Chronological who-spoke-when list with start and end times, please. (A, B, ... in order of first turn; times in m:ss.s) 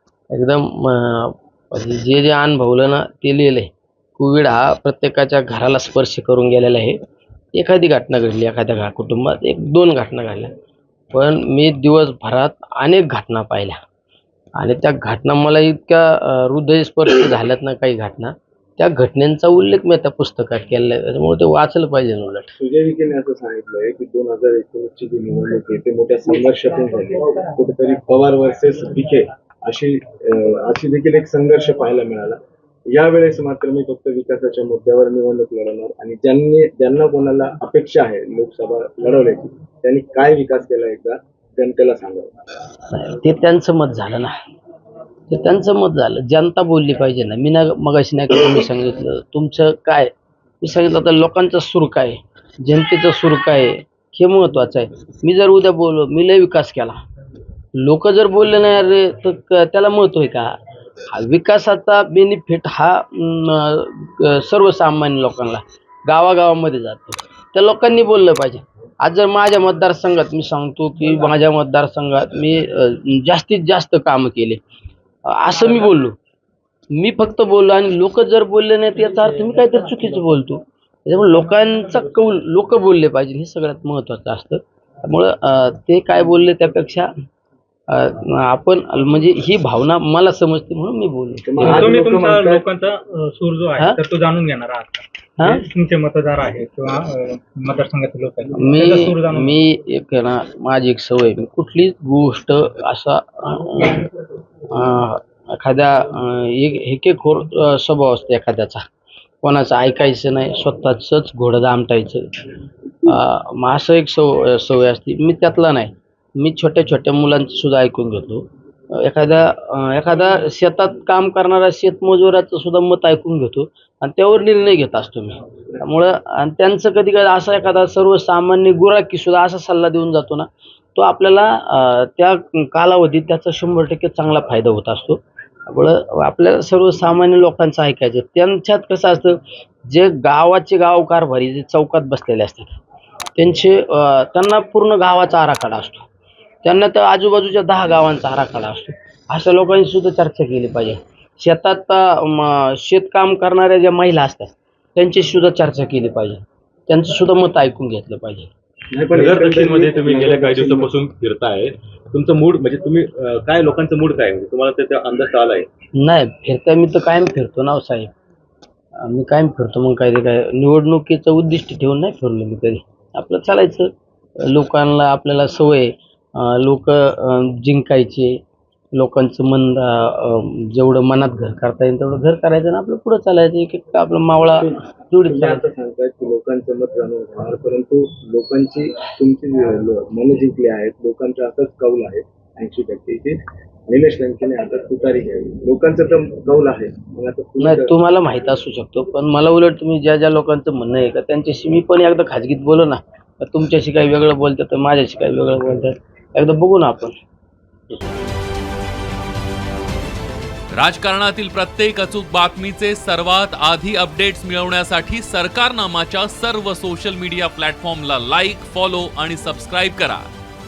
0:00.3-0:07.0 A
0:07.6-0:10.5 A
0:11.1-0:13.8 A
0:14.6-0:22.5 A
0:22.6-0:32.4 B
0:32.9-0:42.3 B
0:42.9-0:44.3 A
0:45.3-0:50.1 A
0:50.6-0:57.0 A
0:57.8-1:00.5 A
1:01.1-1:14.6 A
1:15.3-1:16.2 A
1:17.0-1:27.1 A
1:27.9-1:31.9 A
1:31.4-1:32.6 B
1:31.6-1:39.6 C
1:35.4-1:35.6 A
1:38.6-1:44.1 A
1:44.7-1:48.8 A
1:49.4-1:52.3 A
1:53.0-1:58.4 A
1:59.0-2:22.8 A
2:23.4-2:26.1 A
2:26.6-2:38.5 A
2:38.9-2:40.9 B
2:39.1-2:45.7 D
2:46.0-2:48.1 A
2:49.0-2:53.9 A
2:54.4-2:58.4 A
2:59.0-3:05.6 A
3:05.2-3:17.9 B
3:17.6-3:27.2 A
3:30.8-3:40.2 E